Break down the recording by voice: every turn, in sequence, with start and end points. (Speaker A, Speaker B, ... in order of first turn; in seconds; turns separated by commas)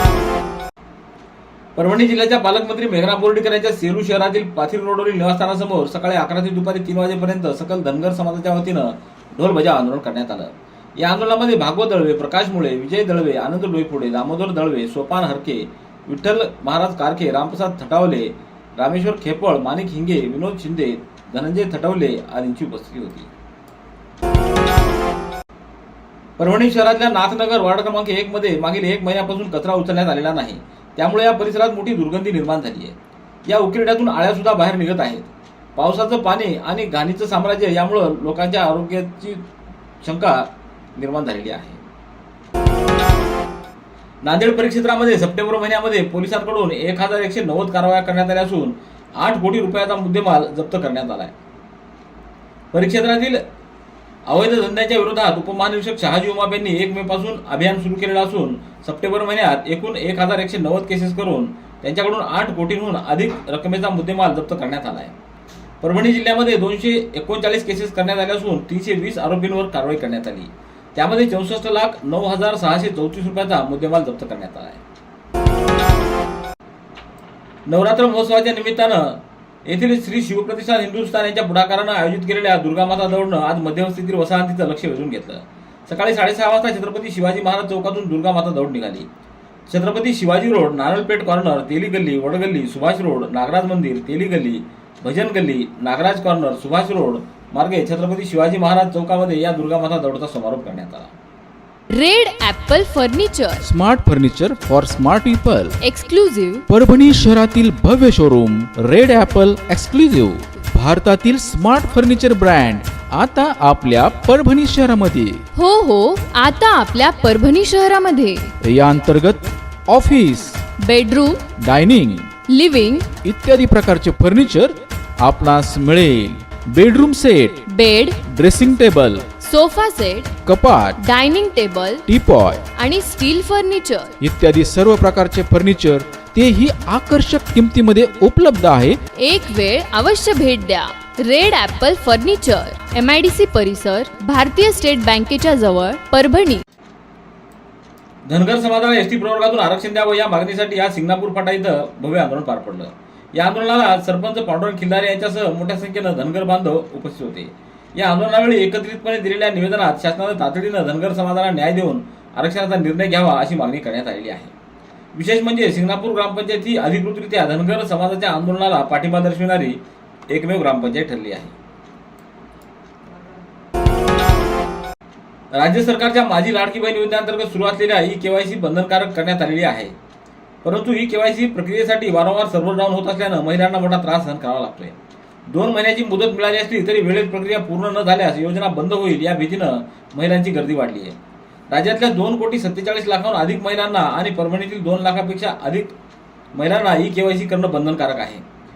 Speaker A: 1.8-23.3, Speaker A: 26.4-33.0, Speaker A: 33.5-39.4, Speaker A: 40.0-41.8, Speaker A: 44.2-51.3, Speaker A: 52.7-53.4, Speaker A: 54.3-65.1, Speaker A: 65.8-74.8, Speaker A: 77.7-89.1, Speaker A: 89.7-101.1, Speaker B: 101.9-103.6, Speaker C: 103.6-105.8, Speaker B: 105.8-106.6, Speaker C: 106.7-115.4, Speaker B: 115.5-118.5, Speaker C: 118.6-120.6, Speaker B: 120.8-121.4, Speaker C: 121.6-122.3, Speaker B: 122.5-123.1, Speaker C: 123.1-127.6, Speaker B: 127.7-128.2, Speaker C: 128.2-129.3, Speaker B: 129.4-130.3, Speaker C: 130.4-131.0, Speaker B: 131.0-132.0, Speaker C: 132.1-132.6, Speaker B: 132.8-134.1, Speaker C: 134.2-139.0, Speaker B: 139.2-146.6, Speaker A: 148.3-164.5, Speaker A: 165.1-169.8, Speaker A: 170.3-171.5, Speaker A: 175.6-179.9, Speaker A: 180.6-184.9, Speaker A: 185.5-191.1, Speaker A: 191.7-195.9, Speaker A: 196.5-198.4